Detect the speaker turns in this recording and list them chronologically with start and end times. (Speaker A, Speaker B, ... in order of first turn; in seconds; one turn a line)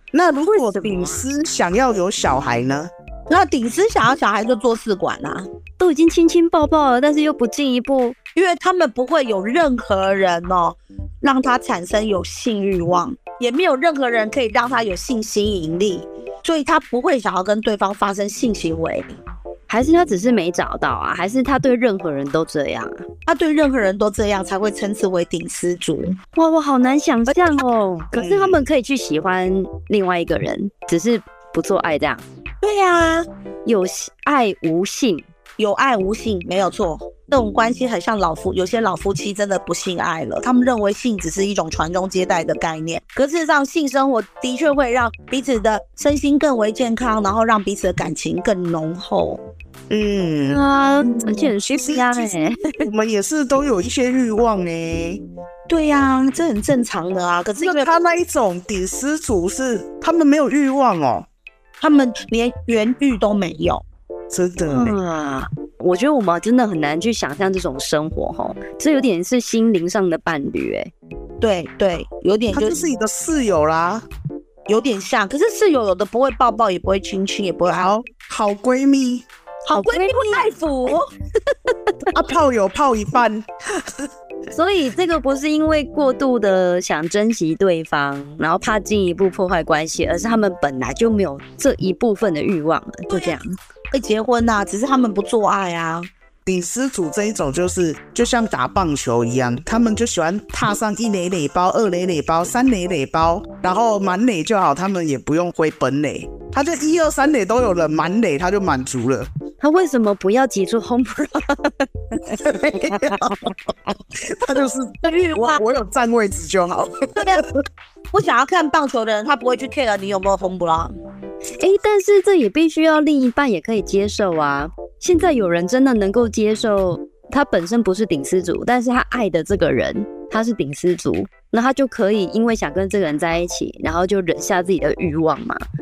Speaker A: 0.1-2.9
Speaker B: 0.5-1.2
Speaker C: 3.3-5.5
Speaker B: 5.8-8.2
Speaker C: 8.3-19.1
Speaker B: 19.7-22.9
Speaker C: 23.3-26.2
Speaker B: 26.3-32.2
Speaker A: 28.1-28.6
Speaker C: 32.6-33.2
Speaker B: 33.6-35.2
Speaker C: 35.6-49.4
Speaker A: 49.9-50.6
Speaker B: 50.5-52.8
Speaker A: 51.1-55.2
Speaker C: 55.7-57.9
Speaker A: 57.6-61.3
Speaker C: 61.8-63.8
Speaker A: 64.3-65.0
Speaker B: 64.7-70.9
Speaker C: 71.4-72.9
Speaker A: 72.5-74.1
Speaker C: 74.7-77.9
Speaker A: 77.7-79.2
Speaker C: 79.7-81.1
Speaker B: 79.7-80.5
Speaker A: 82.1-83.5
Speaker B: 84.5-93.6
Speaker C: 93.1-93.4
Speaker C: 93.9-96.1
Speaker A: 96.4-109.3
Speaker B: 109.6-112.2
Speaker A: 112.2-113.3
Speaker B: 112.8-113.2
Speaker A: 114.3-117.4
Speaker C: 115.0-115.6
Speaker C: 117.2-117.4
Speaker C: 118.1-120.9
Speaker B: 121.6-135.6